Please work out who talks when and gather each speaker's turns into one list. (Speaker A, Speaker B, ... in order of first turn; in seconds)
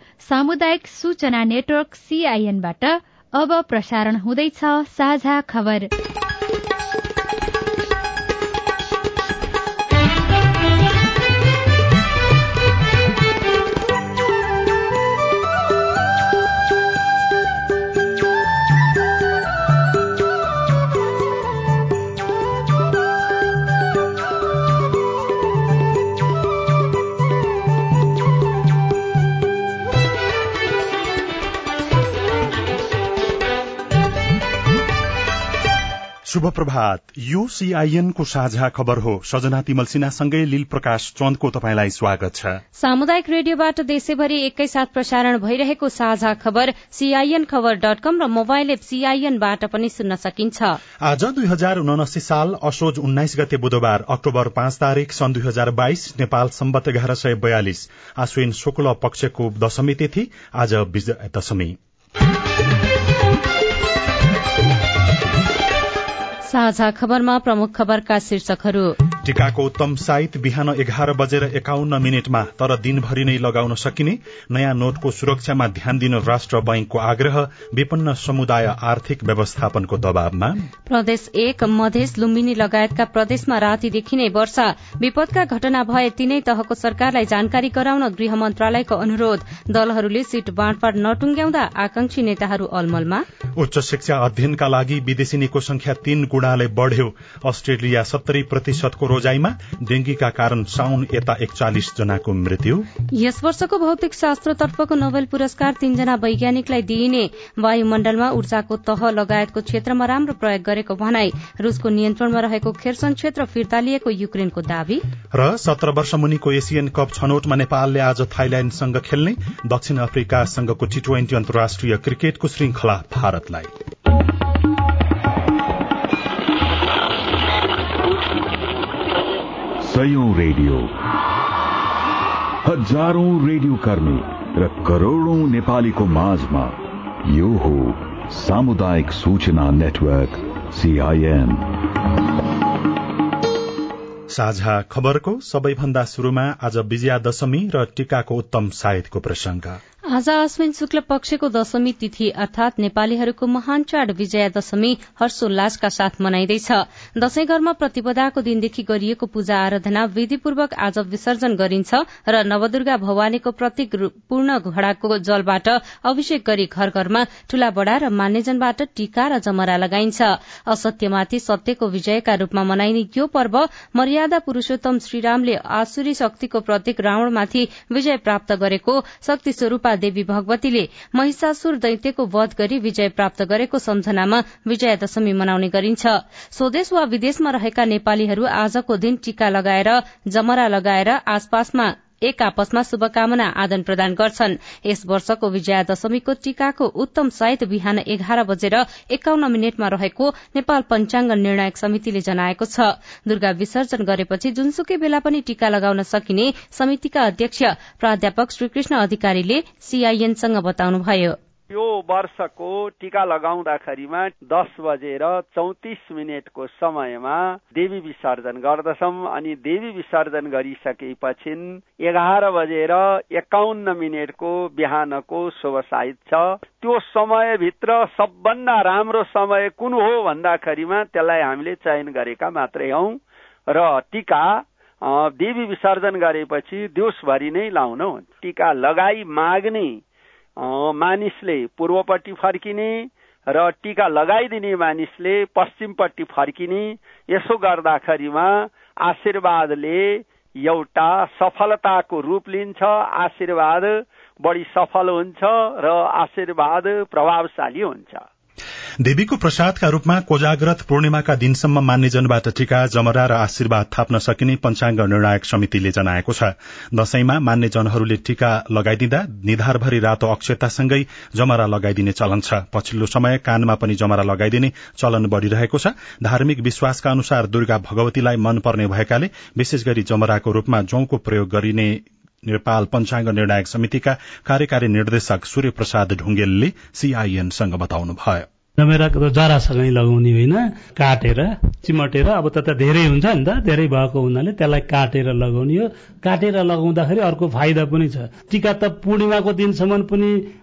Speaker A: 0.2-5.9
Speaker B: 36.3-42.6, 51.0-61.8, 69.2-80.6, 93.6-102.9, 115.3-123.7, 144.3-149.8, 259.0-288.5
Speaker C: 42.8-50.8, 66.5-69.0, 80.9-93.2, 103.1-115.0, 150.1-211.4
Speaker D: 129.8-130.9, 132.6-141.7
Speaker E: 211.7-240.0, 240.6-258.3
Speaker F: 288.8-300.3